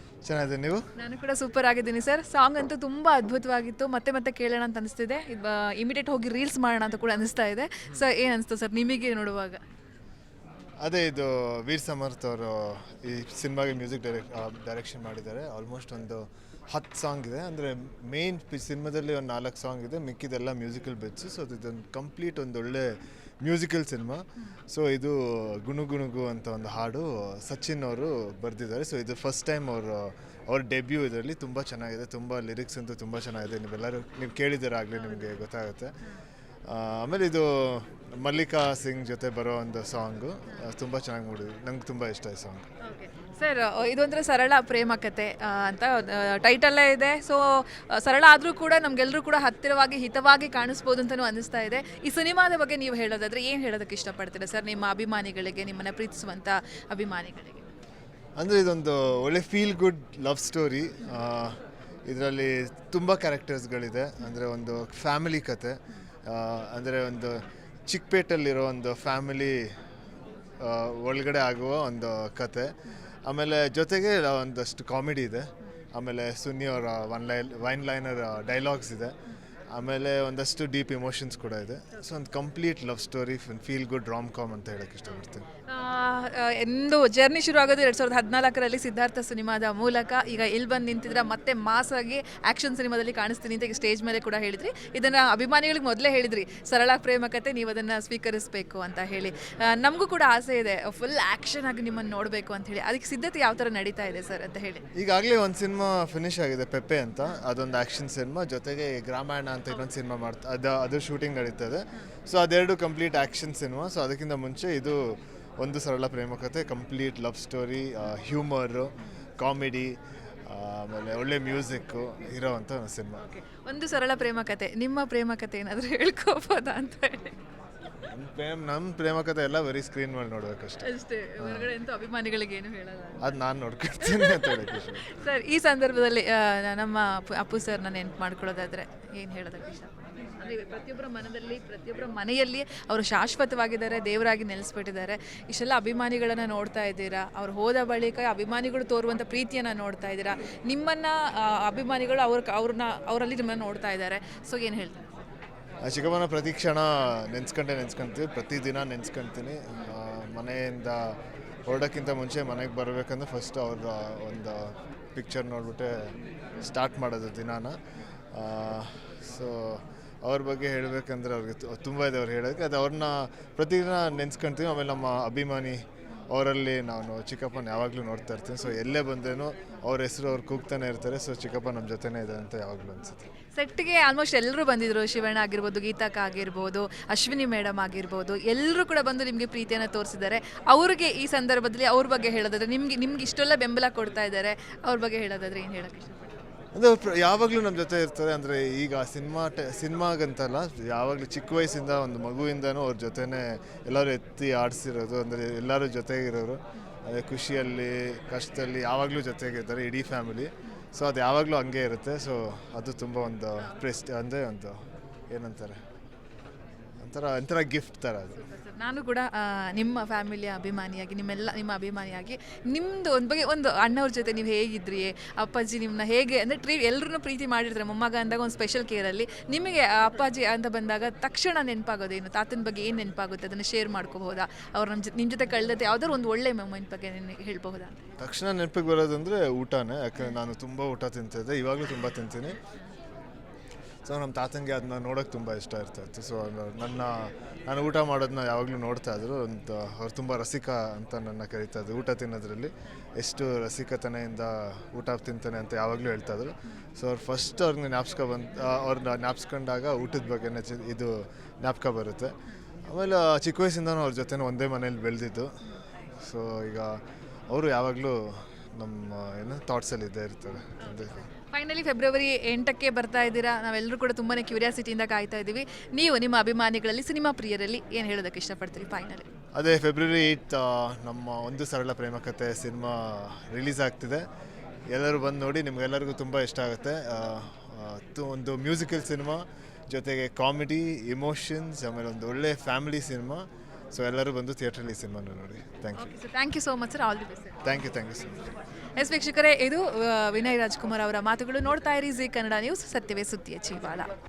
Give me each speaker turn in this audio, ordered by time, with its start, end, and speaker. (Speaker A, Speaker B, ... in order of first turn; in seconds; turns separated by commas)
Speaker A: 0.2-0.9, Speaker B: 0.9-9.6, Speaker A: 10.8-35.9, Speaker B: 35.0-35.3, Speaker A: 36.7-42.6, Speaker B: 42.8-57.7, Speaker A: 58.4-69.7, Speaker A: 70.6-72.7, Speaker A: 73.2-79.2, Speaker A: 79.7-85.4, Speaker B: 85.7-104.8, Speaker A: 104.9-123.2, Speaker B: 123.2-127.4, Speaker A: 128.1-131.7, Speaker B: 130.8-133.2, Speaker A: 133.2-135.2, Speaker B: 134.0-155.2, Speaker A: 155.8-167.8, Speaker A: 168.3-183.2, Speaker B: 183.5-196.3, Speaker A: 196.7-214.8, Speaker A: 215.3-215.8, Speaker A: 217.0-218.4, Speaker B: 218.4-238.0, Speaker A: 238.2-242.6, Speaker A: 244.0-262.3, Speaker A: 262.9-265.5, Speaker A: 266.2-271.2, Speaker B: 270.8-279.3, Speaker A: 279.5-284.2, Speaker A: 284.9-296.1, Speaker B: 295.9-297.6, Speaker A: 297.6-298.5, Speaker B: 298.9-304.1